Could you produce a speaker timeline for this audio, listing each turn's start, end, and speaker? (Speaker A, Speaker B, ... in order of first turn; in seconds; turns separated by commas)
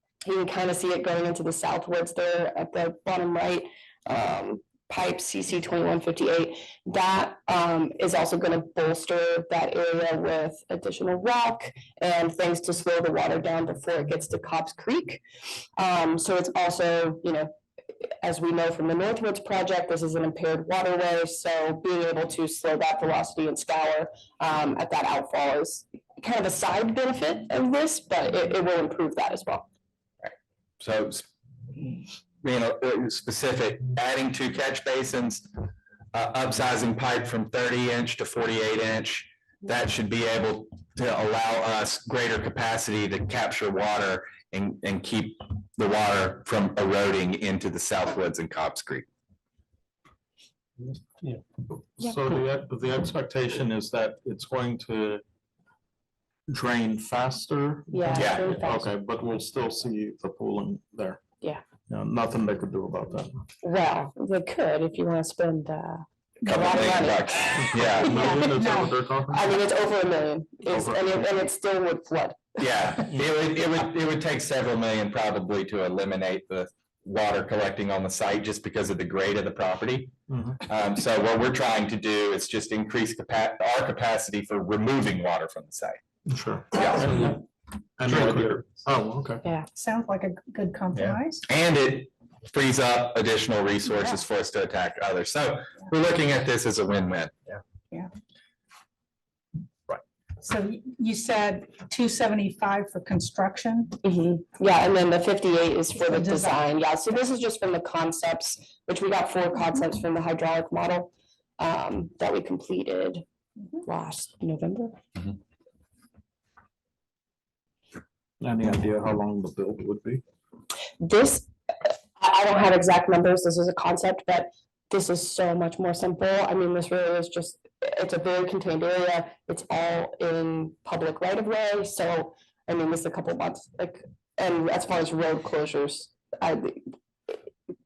Speaker A: 0.2-15.2, Speaker A: 15.8-17.5, Speaker A: 18.0-29.7, Speaker B: 30.8-31.2, Speaker B: 31.8-35.5, Speaker B: 36.1-49.1, Speaker C: 52.0-55.2, Speaker C: 56.5-61.2, Speaker A: 57.9-58.9, Speaker B: 58.1-58.5, Speaker C: 61.9-63.4, Speaker A: 63.6-72.6, Speaker D: 66.4-66.7, Speaker B: 66.5-68.3, Speaker C: 67.6-69.6, Speaker D: 68.5-68.9, Speaker C: 70.7-71.2, Speaker B: 72.6-80.1, Speaker C: 80.3-80.6, Speaker B: 80.7-86.0, Speaker C: 86.3-87.4, Speaker B: 86.7-87.2, Speaker C: 88.0-89.4, Speaker D: 89.7-91.4, Speaker B: 91.0-97.6, Speaker D: 100.4-103.9, Speaker A: 104.0-113.2, Speaker D: 106.0-106.6, Speaker A: 113.8-115.0, Speaker C: 118.4-120.2, Speaker A: 121.0-137.4